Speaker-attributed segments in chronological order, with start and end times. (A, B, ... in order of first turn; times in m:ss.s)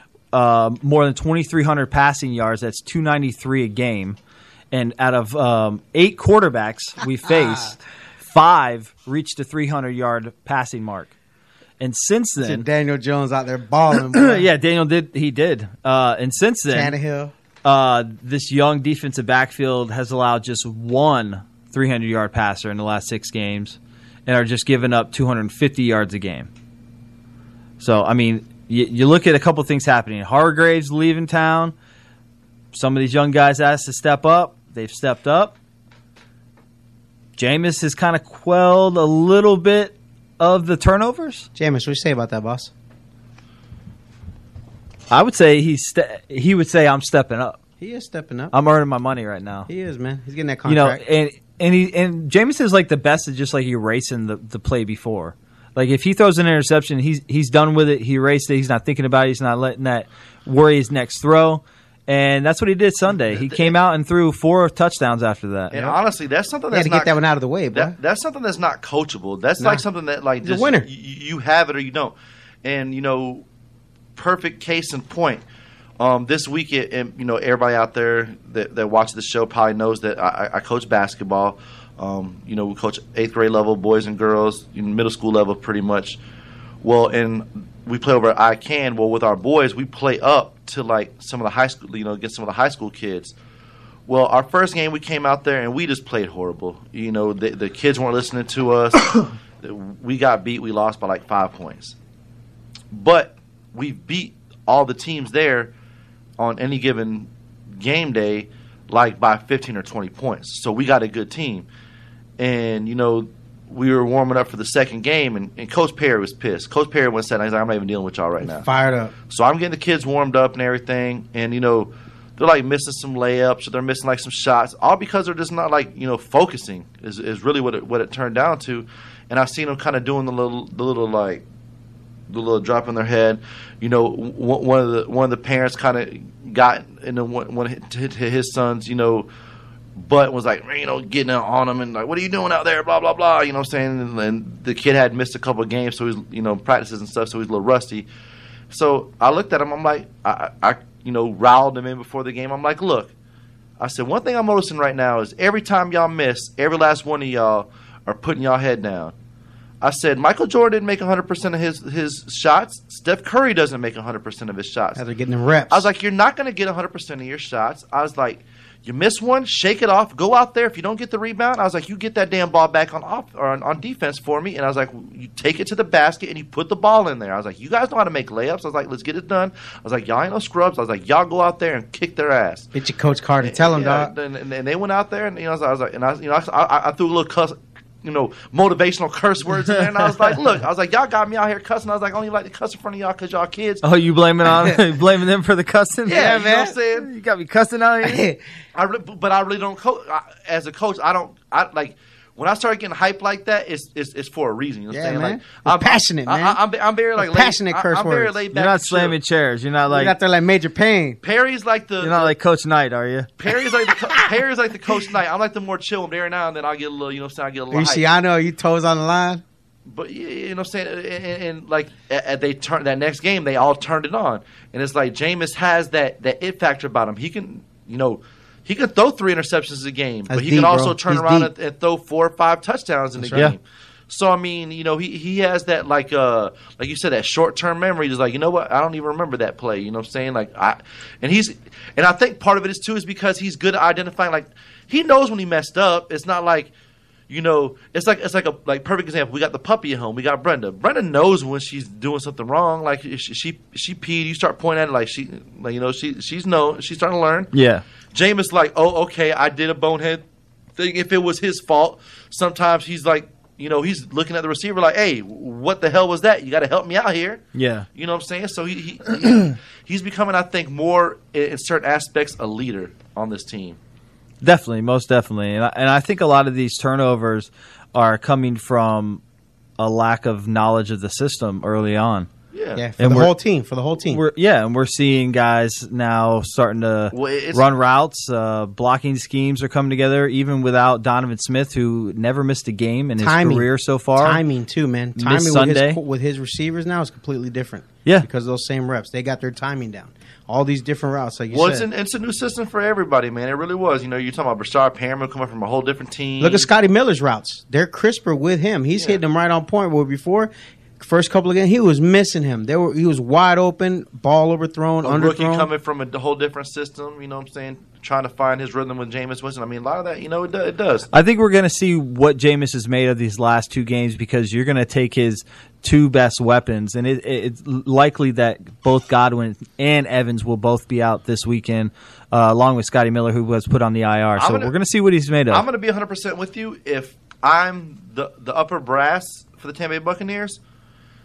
0:00.3-0:04.2 A
0:04.7-0:11.1 A
0:11.8-0:12.6 A
0:12.4-0:14.5 B
0:14.1-0:17.0 A
0:16.7-0:17.3 B
0:17.6-0:26.5 A
0:27.8-0:31.7 A
0:32.7-0:35.5 A
0:37.4-0:41.5 A
0:41.6-0:42.7 B
0:45.1-0:47.6 A
0:47.8-0:48.5 B
0:48.5-0:49.7 A
0:49.7-0:51.0 B
0:50.6-1:05.9 A
1:03.2-1:03.7 C
1:05.7-1:07.2 C
1:06.7-1:07.9 B
1:07.7-1:13.4 C
1:09.6-1:09.8 B
1:10.4-1:10.9 B
1:14.2-1:15.4 C
1:16.0-1:26.2 C
1:26.8-1:33.3 C
1:34.1-1:41.9 C
1:42.9-1:45.7 C
1:46.4-1:51.7 C
1:52.4-1:58.7 C
1:58.4-1:59.1 B
1:59.3-2:11.4 C
2:12.3-2:19.3 C
2:20.0-2:28.1 C
2:28.7-2:33.1 C
2:33.8-2:39.1 C
2:39.8-2:45.0 C
2:45.0-2:45.8 B
2:45.7-3:02.7 C
3:02.7-3:04.1 B
3:03.4-3:13.8 C
3:13.8-3:18.2 A
3:14.4-3:14.8 B
3:16.1-3:16.7 B
3:16.1-3:17.1 C
3:18.0-3:18.4 B
3:18.7-3:29.2 C
3:24.9-3:26.6 B
3:27.2-3:28.4 B
3:28.5-3:30.1 A
3:29.9-3:31.2 B
3:31.2-3:32.3 C
3:32.0-3:33.3 A
3:33.4-3:38.0 C
3:37.7-3:39.4 B
3:39.8-4:06.7 C
3:50.3-3:51.5 B
3:53.2-3:53.5 B
4:07.3-4:17.5 C
4:17.5-4:17.8 A
4:18.1-4:20.2 C
4:20.8-4:27.4 C
4:27.5-4:27.8 A
4:27.9-4:33.8 C
4:34.4-4:39.2 A
4:39.8-4:42.3 A
4:42.5-4:42.8 C
4:42.8-4:44.2 B
4:43.0-4:43.3 A
4:44.0-4:54.4 A
4:47.1-4:47.7 C
4:53.2-5:01.8 B
4:55.2-4:56.0 A
5:01.5-5:06.7 C
5:06.4-5:15.7 B
5:15.0-5:21.1 C
5:21.1-5:35.6 A
5:34.4-5:34.7 C
5:35.5-5:40.6 C